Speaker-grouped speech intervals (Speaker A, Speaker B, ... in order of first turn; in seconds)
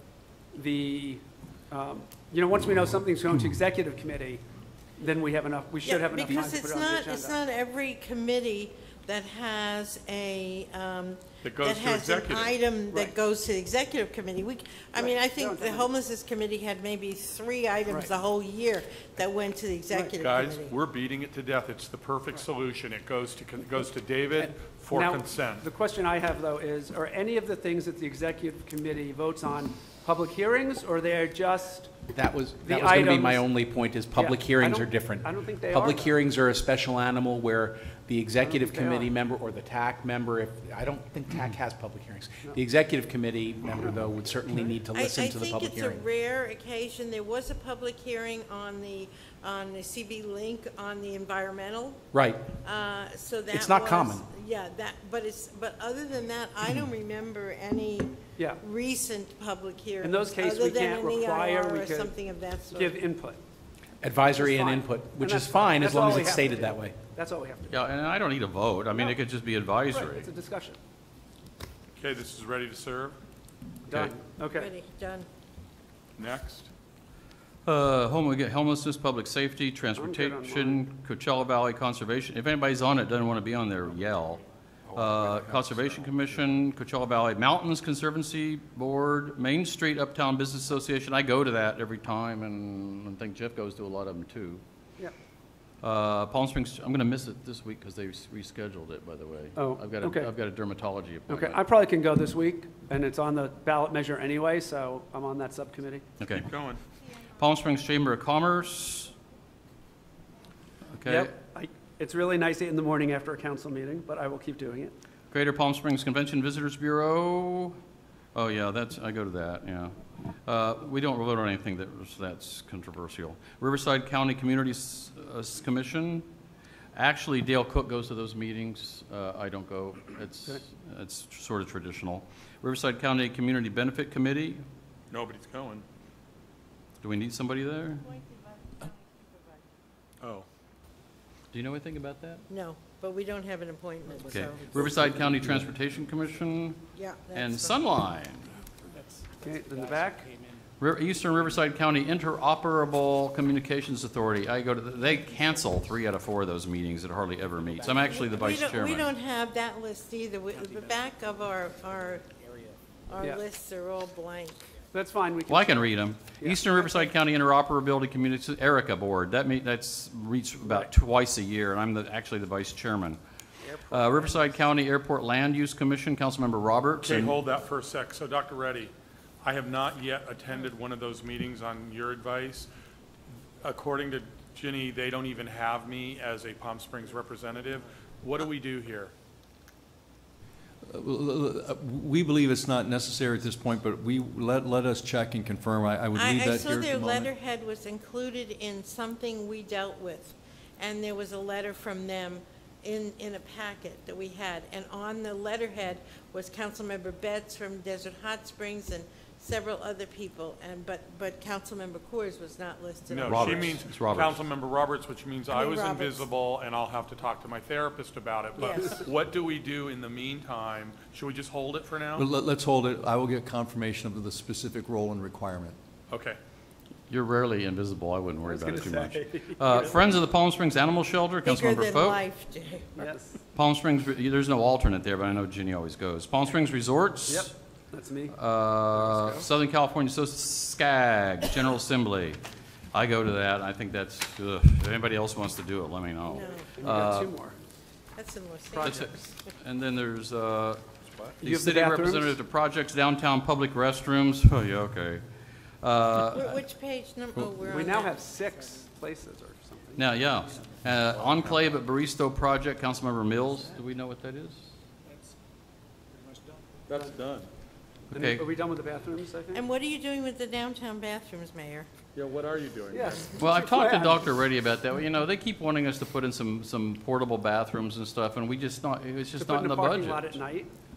Speaker A: 0.5-4.4, 5.0-7.4, 15.0-15.9, 19.9-20.1, 24.9-32.0, 32.6-33.5, 34.1-36.2, 38.4-39.1, 44.5-44.8, 58.4-58.6, 60.0-62.2, 62.7-63.4, 64.3-67.8, 68.9-69.2, 69.9-70.8, 73.9-74.7, 80.0-80.8, 99.5-100.3, 101.3-106.0, 111.0-114.9, 149.4-150.3, 164.9-166.9, 170.6-170.9, 173.6-174.7, 228.4-230.0, 233.0-233.3, 237.3-238.4, 239.0-239.5, 246.3-247.5, 248.7-249.2, 251.4-252.4, 257.6-260.0, 268.1-269.6, 272.9-274.3, 279.4-280.7
Speaker B: 5.8-20.8, 44.9-52.0, 52.6-63.0, 74.5-75.3, 138.0-139.6, 142.5-145.0, 146.9-147.8, 157.9-162.3, 163.1-164.6, 196.1-213.8, 215.5-216.3, 218.6-219.0, 231.4-233.1, 246.3-246.7, 248.2-249.1, 256.3-258.2, 269.5-271.9
Speaker C: 11.4-12.6, 20.2-25.6, 72.0-73.2, 76.2-76.7, 106.3-106.8, 135.1-135.8, 140.2-140.4, 177.0-182.7, 183.6-189.1, 213.1-222.2, 226.1-226.4, 266.9-267.5, 272.1-273.2
Speaker D: 32.1-46.0, 52.1-52.5, 53.5-54.3, 64.0-67.0
Speaker E: 67.7-70.3, 77.7-94.6, 95.8-101.6, 106.2-106.5, 107.4-109.1, 110.9-111.3, 115.3-117.8, 118.3-126.2, 126.9-134.6, 137.0-138.1, 141.5-142.4, 144.3-146.8, 147.3-148.5, 150.8-159.1, 165.5-173.2, 173.9-177.3, 213.2-214.4, 227.1-232.2, 233.5-237.5, 238.3-242.4, 242.9-247.3, 248.8-250.8, 251.4-255.2, 255.8-256.6, 260.0-264.6, 268.1-268.4, 273.4-280.3
Speaker F: 84.9-85.2, 190.8-197.3, 222.2-225.8